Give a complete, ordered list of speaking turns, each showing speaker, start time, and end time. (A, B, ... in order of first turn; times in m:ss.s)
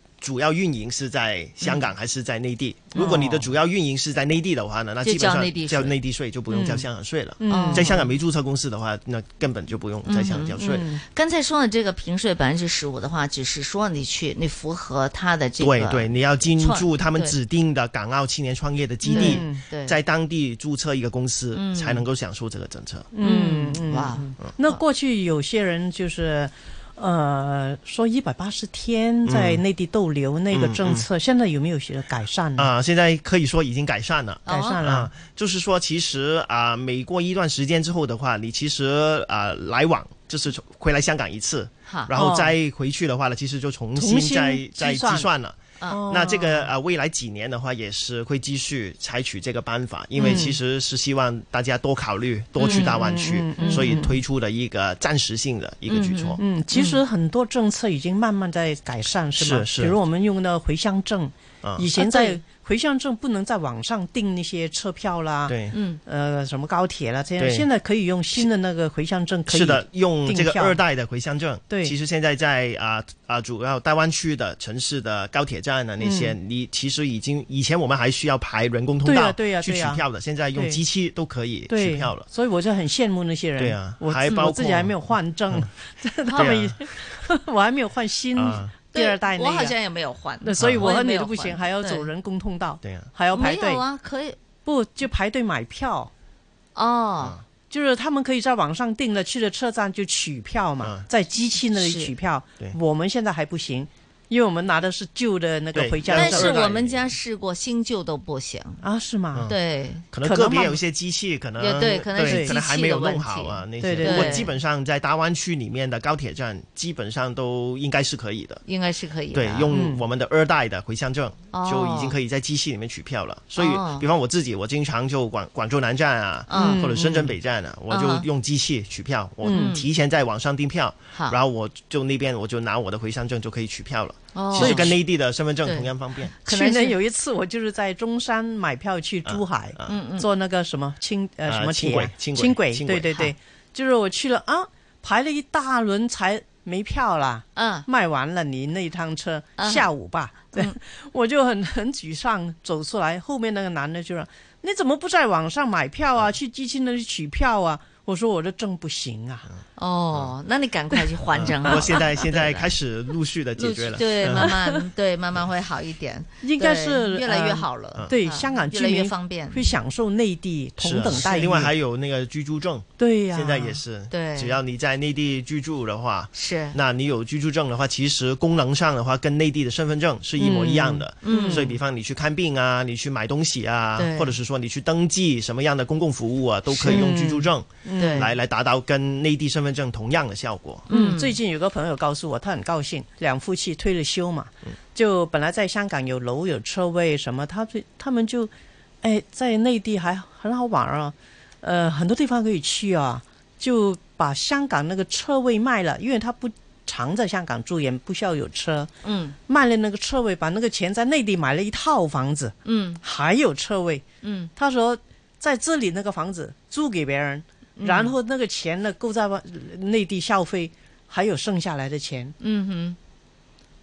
0:00.2-0:10.9 A
0:03.0-0:03.5 B
0:05.0-0:06.0 C
0:06.5-0:06.8 B
0:07.4-0:08.0 B
0:07.5-0:08.1 C
0:10.1-0:17.4 C
0:10.6-0:11.0 B
0:15.6-0:23.1 A
0:19.1-0:20.0 C
0:19.1-0:19.6 B
0:21.6-0:22.0 C
0:23.1-0:32.7 B
0:23.2-0:24.8 C
0:29.3-0:29.6 A
0:30.5-0:31.1 A
0:32.6-0:56.4 A
0:34.4-0:34.8 C
0:34.5-0:35.1 B
0:42.2-0:42.5 B
0:44.0-0:45.3 B
0:45.9-0:46.7 B
0:50.2-0:50.5 C
0:50.2-0:50.6 B
0:52.6-0:53.0 C
0:52.7-0:54.2 B
0:53.6-0:54.0 C
0:55.9-0:57.0 C
0:56.4-1:05.6 B
0:59.4-1:00.0 A
1:01.6-1:01.9 A
1:02.0-1:02.4 C
1:05.5-1:05.8 A
1:05.7-1:06.0 C
1:06.1-1:10.8 B
1:07.4-1:07.7 A
1:09.5-1:22.3 A
1:11.7-1:12.0 B
1:16.0-1:16.4 B
1:19.0-1:20.0 B
1:20.6-1:20.8 B
1:21.7-1:29.7 B
1:23.6-1:25.0 A
1:26.3-1:26.6 C
1:26.3-1:26.8 A
1:28.4-1:28.7 A
1:28.9-1:32.1 C
1:30.4-1:33.8 B
1:30.6-1:30.9 A
1:32.8-1:33.1 A
1:33.3-1:34.4 C
1:34.6-1:36.1 B
1:36.8-1:37.4 C
1:37.7-1:46.6 B
1:41.8-1:42.1 C
1:45.7-1:47.1 A
1:46.1-1:48.8 C
1:48.8-1:49.5 B
1:49.5-1:50.0 C
1:50.1-1:58.6 A
1:50.2-1:50.8 B
1:51.6-1:54.5 C
1:52.2-1:52.6 B
1:53.8-1:54.5 B
1:58.7-1:59.7 C
1:59.3-2:16.3 A
1:59.7-2:00.0 B
2:01.5-2:02.2 C
2:03.6-2:04.1 C
2:06.5-2:07.2 C
2:06.6-2:07.3 B
2:07.9-2:08.3 C
2:09.4-2:09.8 C
2:09.5-2:09.8 B
2:14.4-2:15.0 C
2:14.6-2:14.9 B
2:15.6-2:17.0 C
2:16.5-2:39.5 B
2:19.3-2:20.0 A
2:19.9-2:20.3 C
2:21.5-2:23.1 A
2:27.6-2:27.9 C
2:29.6-2:29.9 C
2:39.8-2:42.7 C
2:41.4-2:44.6 A
2:43.6-2:49.7 C
2:44.4-2:44.8 B
2:46.4-2:51.7 B
2:50.8-3:10.9 A
2:53.0-2:53.8 B
2:54.1-2:54.6 C
2:56.3-2:56.8 C
3:00.4-3:01.6 B
3:01.2-3:01.7 C
3:04.0-3:04.4 C
3:06.7-3:08.3 B
3:08.0-3:08.3 C
3:10.9-3:11.4 C
3:10.9-3:18.5 B
3:19.0-3:28.9 B
3:29.0-3:29.4 C
3:29.5-3:34.0 B
3:32.6-3:33.0 C
3:34.2-3:34.5 C
3:34.6-3:42.3 B
3:37.8-3:38.1 C
3:42.4-3:43.0 C